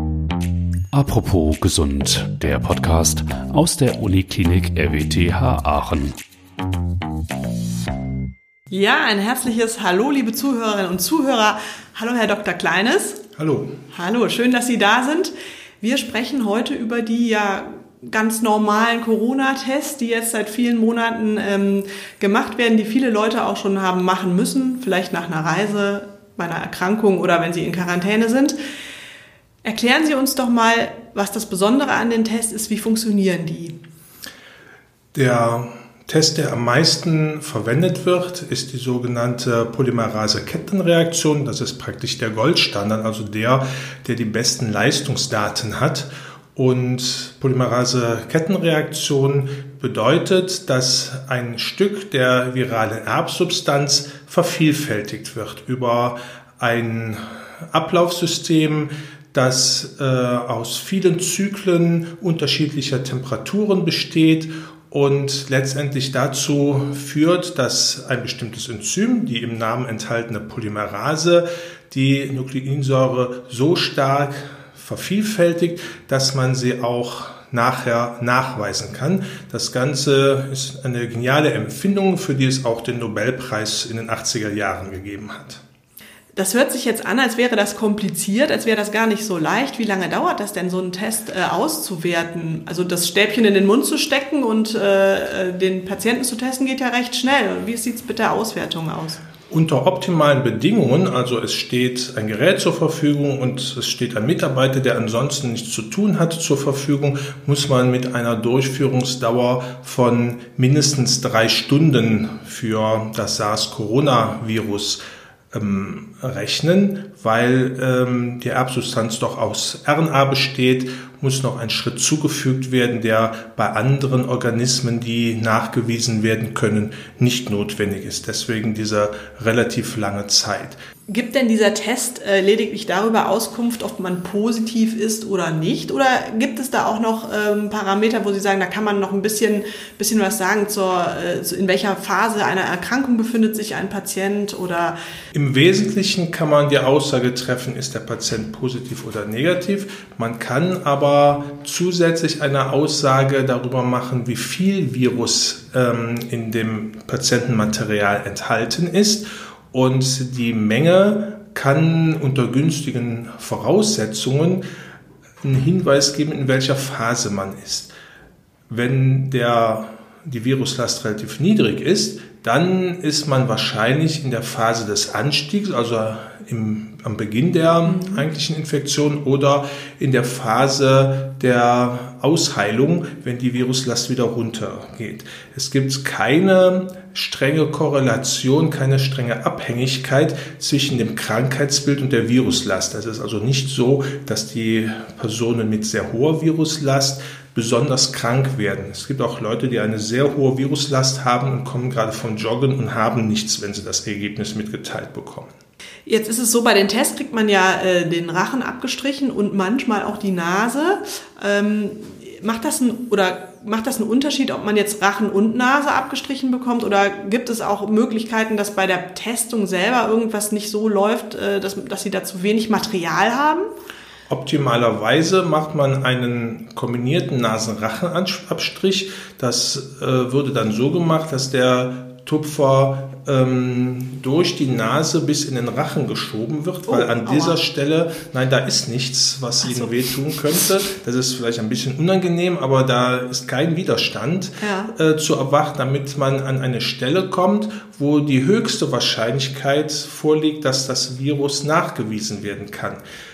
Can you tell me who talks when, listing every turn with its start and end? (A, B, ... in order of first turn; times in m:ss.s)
0:00.9-0:06.1 A
0:08.7-0:13.2 B
0:13.4-0:13.7 C
0:13.9-0:28.6 B
0:29.6-0:33.8 B
0:35.1-1:25.6 C
1:26.4-1:39.2 B
1:39.5-1:55.0 C
1:55.5-2:10.8 C
2:11.1-2:25.0 B
2:25.3-2:44.6 C
2:45.4-2:47.9 C
2:48.7-3:25.5 C
2:57.8-2:58.2 B
3:26.0-3:43.6 B
3:44.3-4:13.0 C
3:56.9-3:57.6 B
3:59.6-3:59.9 B
4:04.6-4:04.9 B